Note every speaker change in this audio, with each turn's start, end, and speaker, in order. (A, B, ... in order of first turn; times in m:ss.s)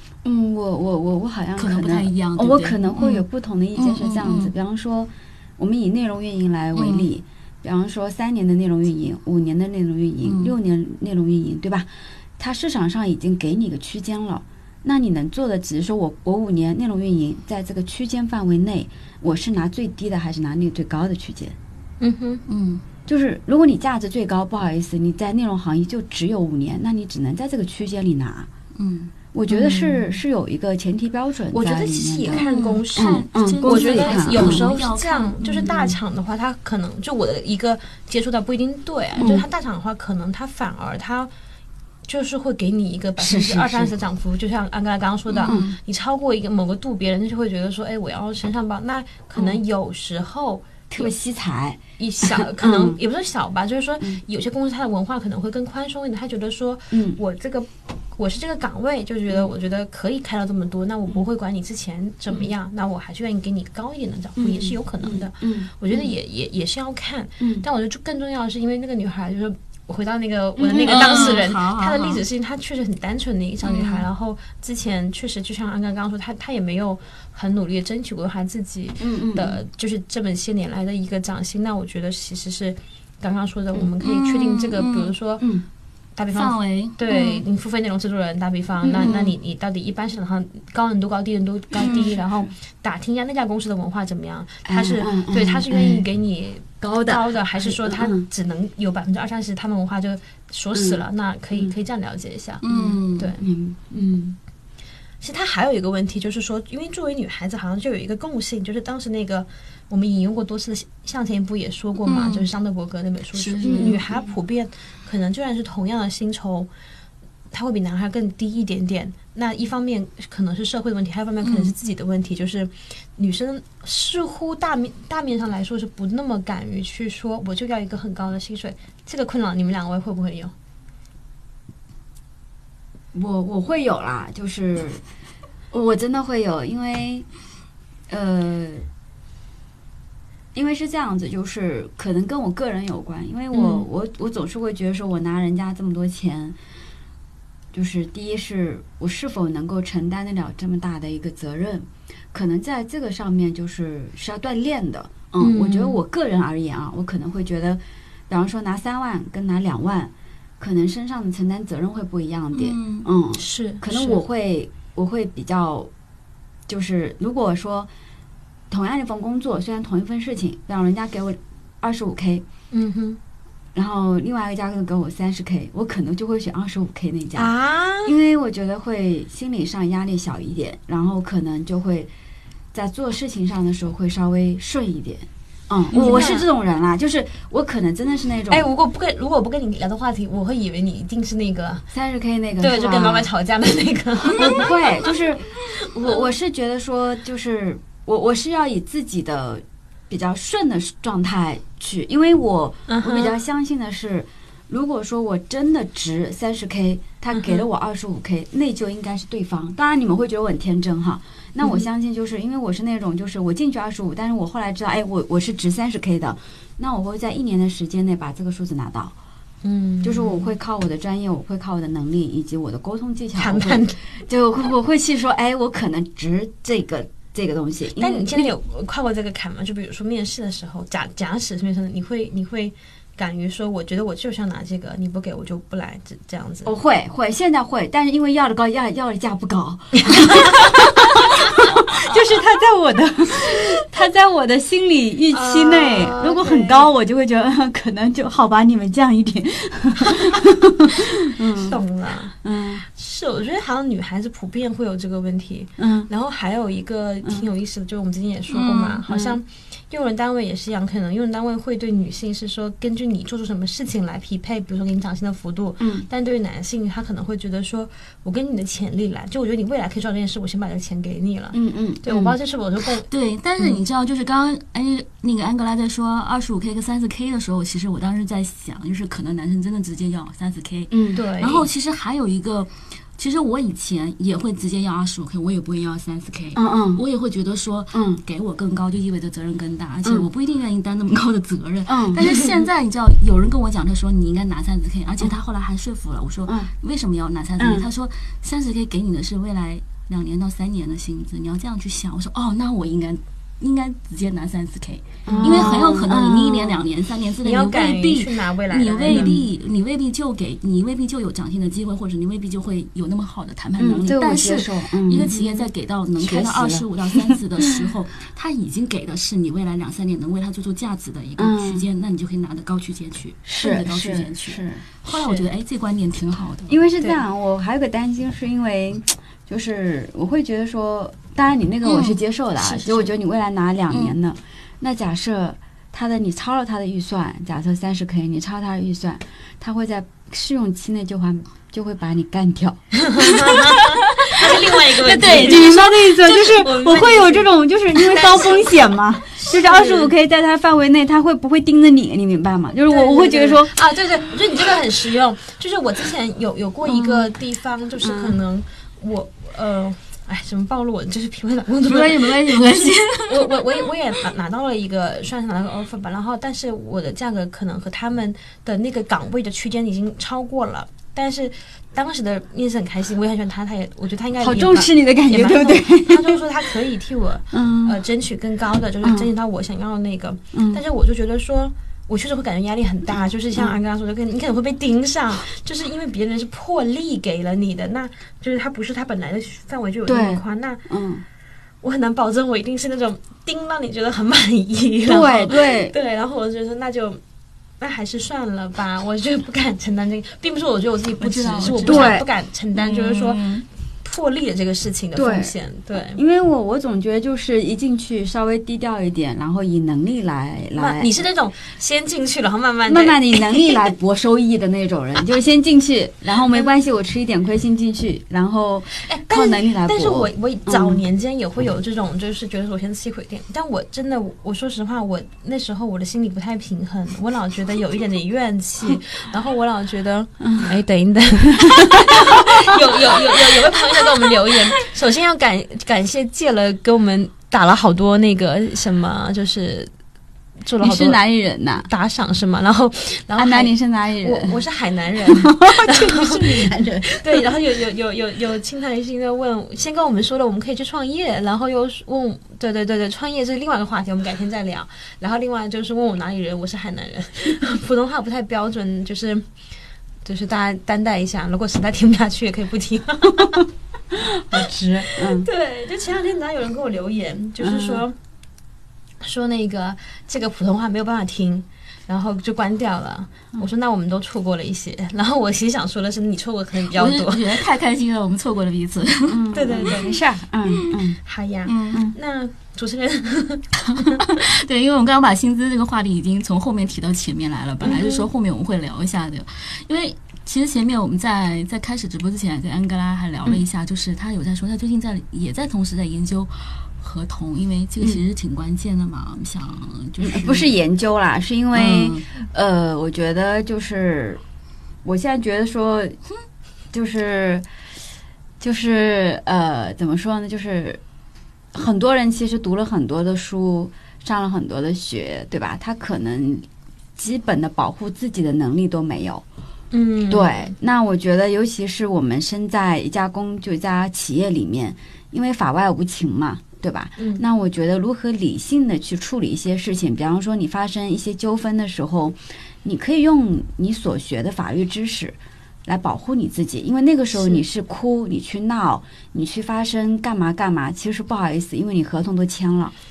0:00.2-0:21.6 A
0:01.6-0:03.2 B
0:03.8-0:04.5 B
0:06.7-0:07.1 B
0:10.2-0:10.5 B
0:22.0-0:22.4 C
0:22.5-0:22.8 B
0:23.1-0:28.5 A
0:28.8-0:29.1 B
0:29.3-0:32.4 A
0:29.5-0:30.0 C
0:31.5-0:41.3 C
0:32.3-0:36.0 B
0:33.0-0:34.6 A
0:39.2-0:39.4 A
0:42.1-0:51.1 C
0:43.2-0:43.9 A
0:45.3-0:45.8 B
0:45.5-0:45.7 A
0:50.9-0:53.0 A
0:52.0-1:25.5 C
0:56.9-0:57.2 A
1:04.4-1:06.0 A
1:07.4-1:07.6 A
1:10.6-1:11.4 A
1:10.8-1:12.2 B
1:13.6-1:14.0 B
1:19.0-1:19.6 A
1:24.0-1:25.1 B
1:26.2-1:42.6 C
1:26.3-1:27.4 B
1:28.8-1:29.3 A
1:31.8-1:32.2 B
1:34.6-1:36.0 A
1:36.8-1:38.3 A
1:40.7-1:41.7 A
1:42.6-1:43.4 B
1:42.7-1:44.4 A
1:43.2-1:43.4 C
1:45.2-1:56.7 C
1:52.0-1:52.5 B
1:53.3-1:54.0 B
1:53.6-1:54.2 A
1:57.5-2:10.5 C
2:01.4-2:01.7 B
2:13.1-2:15.0 A
2:15.7-2:17.2 A
2:18.1-2:18.9 A
2:20.5-2:26.6 A
2:23.5-2:23.8 C
2:27.7-2:45.9 A
2:35.4-2:36.0 C
2:42.5-2:43.1 B
2:43.3-2:44.2 C
2:46.7-2:47.9 A
2:48.7-2:52.4 A
2:52.7-2:53.2 C
2:53.7-2:57.5 A
2:57.4-2:58.1 C
2:58.0-3:02.1 A
3:02.7-3:08.6 A
3:05.9-3:06.5 C
3:08.5-3:11.8 C
3:11.9-3:13.3 A
3:12.6-3:14.8 C
3:14.3-3:39.2 A
3:22.9-3:23.4 C
3:27.3-3:27.6 C
3:39.6-3:40.5 C
3:40.0-3:48.5 A
3:43.4-3:44.0 C
3:48.0-3:56.7 C
3:56.6-4:11.8 A
4:00.0-4:00.7 C
4:05.3-4:06.9 C
4:11.5-4:33.1 C
4:12.4-4:12.8 A
4:15.8-4:16.1 A
4:18.5-4:19.0 B
4:19.1-4:19.4 A
4:25.8-4:26.1 A
4:31.5-4:32.4 A
4:33.1-5:26.8 B
4:40.9-4:41.2 A
4:41.1-4:41.7 C
4:46.5-4:47.0 A
4:47.9-4:48.2 A
4:51.9-4:52.3 A
4:57.6-4:57.9 A
5:05.2-5:06.8 A
5:07.4-5:09.3 C
5:09.1-5:09.4 A
5:13.8-5:15.7 A
5:16.2-5:17.8 A
5:21.4-5:21.9 A
5:23.5-5:24.8 A
5:25.1-5:25.5 C
5:26.7-5:44.0 A
5:31.8-5:32.2 B
5:32.6-5:33.0 C
5:33.9-5:34.2 B
5:43.0-5:50.1 C
5:44.9-5:53.7 A
5:45.3-5:45.5 B
5:52.9-6:30.8 C
5:56.9-5:57.2 A
5:58.0-5:58.4 A
6:01.9-6:03.7 B
6:14.4-6:16.7 A
6:17.5-6:18.0 A
6:19.0-6:19.3 A
6:20.5-6:20.8 A
6:30.1-6:31.2 A
6:31.8-6:37.2 C
6:35.0-6:35.9 A
6:37.8-6:43.5 C
6:41.2-6:42.2 B
6:41.8-6:42.2 A
6:42.7-6:43.6 B
6:44.0-6:46.2 C
6:45.1-6:51.2 A
6:50.7-6:53.9 C
6:52.9-7:01.0 A
6:59.0-7:19.9 C
7:10.4-7:10.7 A
7:11.6-7:12.5 A
7:20.6-7:21.2 C
7:20.8-7:21.9 A
7:21.8-7:39.5 C
7:23.4-7:24.6 A
7:25.3-7:27.5 A
7:40.2-7:43.6 C
7:44.1-7:45.5 A
7:44.5-7:48.1 C
7:47.6-7:48.0 A
7:49.2-7:57.6 C
7:56.8-7:59.4 B
7:59.3-8:01.2 A
7:59.5-8:00.1 C
8:00.7-8:01.0 B
8:01.2-8:04.2 C
8:01.6-8:02.0 B
8:03.8-8:20.8 B
8:07.8-8:08.2 C
8:20.2-8:24.4 A
8:21.7-8:22.2 B
8:25.0-8:26.2 A
8:26.9-8:27.6 A
8:28.6-8:31.0 A
8:31.7-8:39.4 A
8:39.9-8:40.7 C
8:40.3-9:02.9 A
8:47.2-8:47.4 C
8:57.3-8:57.6 C